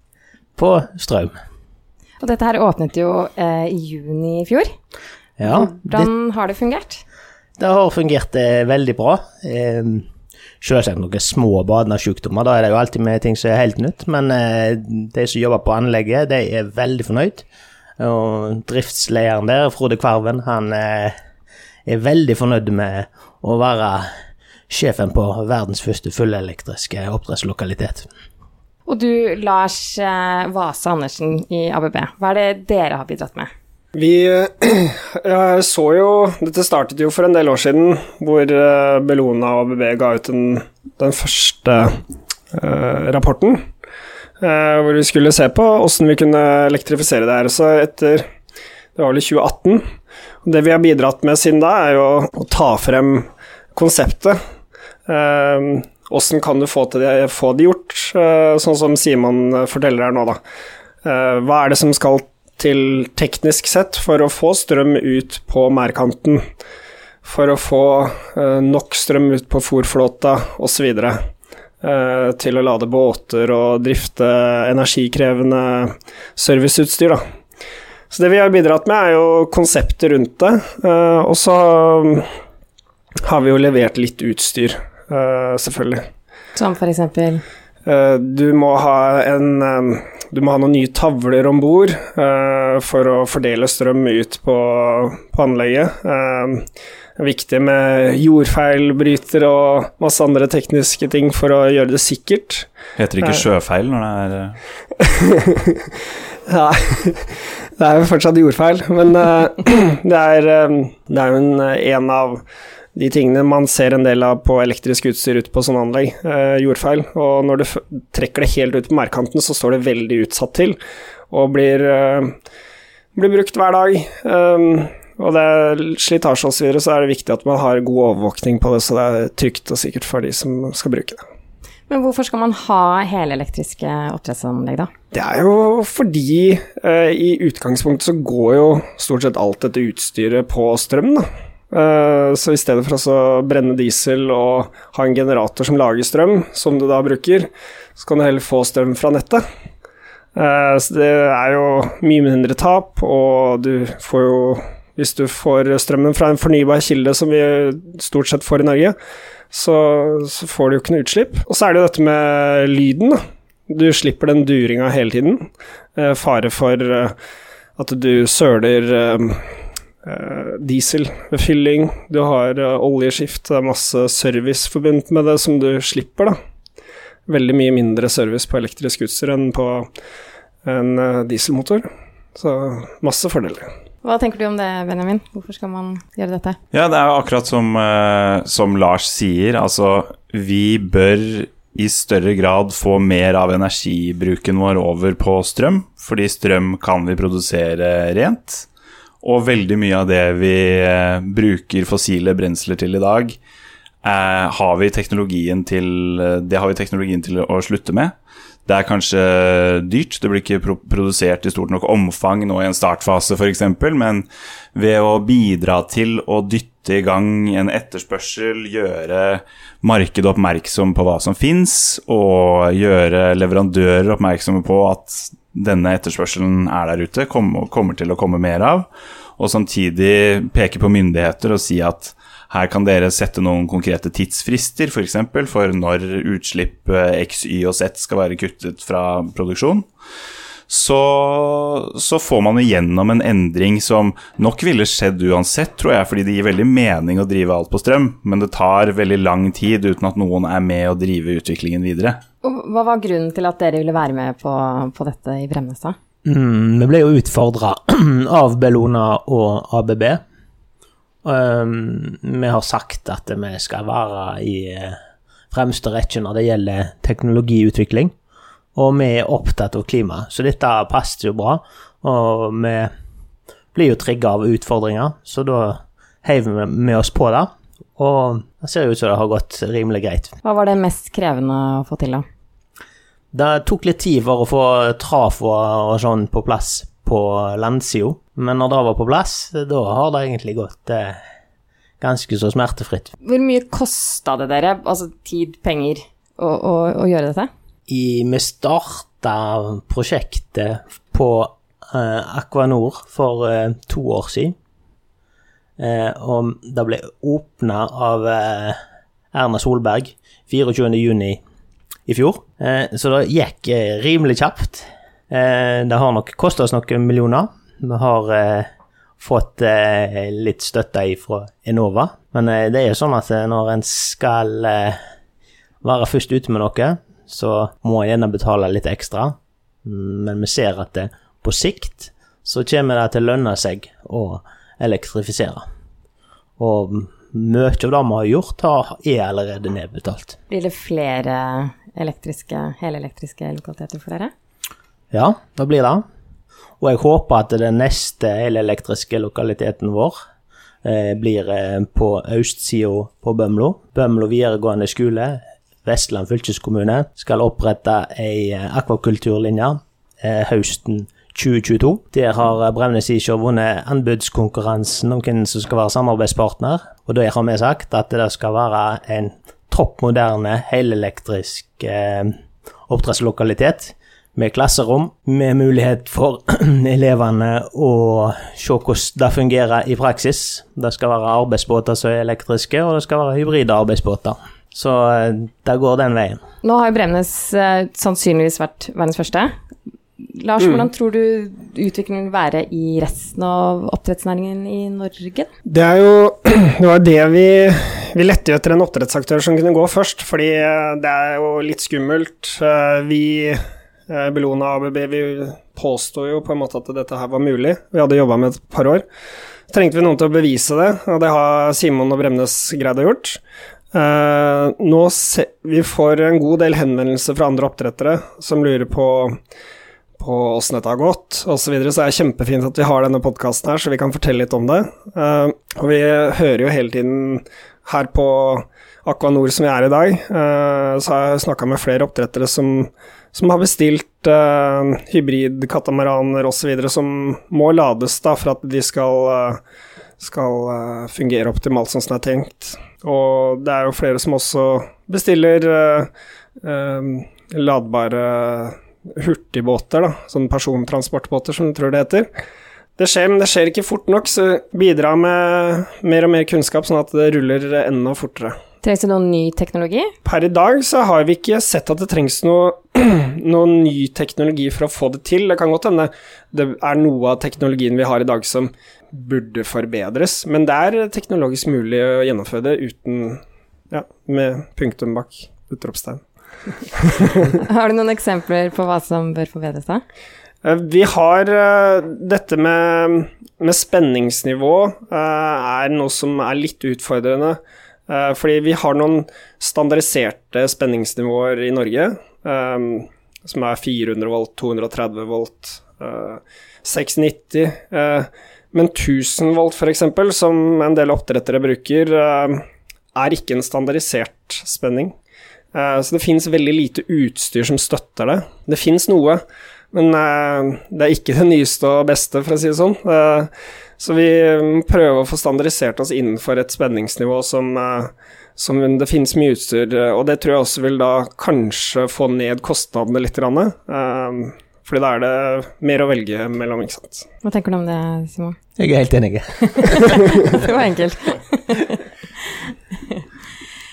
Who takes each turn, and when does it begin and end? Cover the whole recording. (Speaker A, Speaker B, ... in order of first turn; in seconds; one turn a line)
Speaker A: 0.6-1.3
Speaker B: 2.2-4.7
Speaker A: 5.4-6.1
Speaker B: 5.5-7.0
Speaker A: 7.6-10.1
Speaker A: 10.6-17.4
Speaker A: 18.0-21.2
Speaker A: 21.9-24.1
Speaker A: 24.7-28.1
Speaker B: 28.9-33.5
Speaker C: 33.9-42.0
Speaker C: 42.5-43.7
Speaker C: 44.4-48.3
Speaker C: 49.0-49.8
Speaker C: 50.4-54.4
Speaker C: 55.1-60.4
Speaker C: 61.0-66.5
Speaker C: 67.2-71.2
Speaker C: 71.8-77.2
Speaker C: 78.1-82.3
Speaker C: 83.2-86.0
Speaker B: 86.5-87.4
Speaker C: 87.9-96.7
Speaker C: 97.2-102.7
Speaker D: 103.0-104.6
Speaker C: 105.0-112.4
Speaker C: 113.0-120.8
Speaker C: 121.3-122.3
Speaker C: 123.2-131.2
Speaker B: 131.9-134.9
Speaker C: 135.1-149.4
Speaker C: 150.3-159.0
Speaker C: 159.5-167.2
Speaker C: 167.8-176.4
Speaker C: 177.3-179.9
Speaker C: 180.7-183.7
Speaker B: 184.0-186.6
Speaker D: 186.7-198.7
Speaker D: 199.2-203.4
Speaker D: 204.0-208.1
Speaker D: 208.7-239.9
Speaker D: 240.7-252.2
Speaker B: 252.4-256.0
Speaker A: 256.2-260.2
Speaker A: 261.2-265.0
Speaker A: 265.5-268.1
Speaker A: 268.8-272.9
Speaker A: 273.7-280.3
Speaker B: 280.4-282.2
Speaker A: 283.3-291.2
Speaker A: 292.0-293.1
Speaker B: 293.2-297.5
Speaker A: 297.9-304.6
Speaker A: 305.8-308.8
Speaker A: 309.3-311.4
Speaker A: 312.1-318.7
Speaker A: 319.2-325.0
Speaker A: 325.8-335.6
Speaker A: 336.6-340.4
Speaker B: 340.5-344.3
Speaker A: 345.1-346.0
Speaker A: 346.8-350.2
Speaker A: 350.8-372.4
Speaker A: 372.9-386.4
Speaker B: 386.6-389.5
Speaker B: 390.2-395.5
Speaker C: 395.7-409.1
Speaker C: 409.7-413.4
Speaker C: 413.9-419.4
Speaker C: 420.2-439.6
Speaker C: 440.2-446.1
Speaker C: 446.6-452.3
Speaker C: 453.0-458.6
Speaker B: 458.8-460.1
Speaker C: 460.2-476.2
Speaker C: 476.9-477.4
Speaker B: 477.5-480.0
Speaker C: 480.6-502.6
Speaker C: 503.1-505.1
Speaker C: 505.7-527.2
Speaker B: 527.4-528.6
Speaker A: 528.8-530.2
Speaker B: 529.8-532.0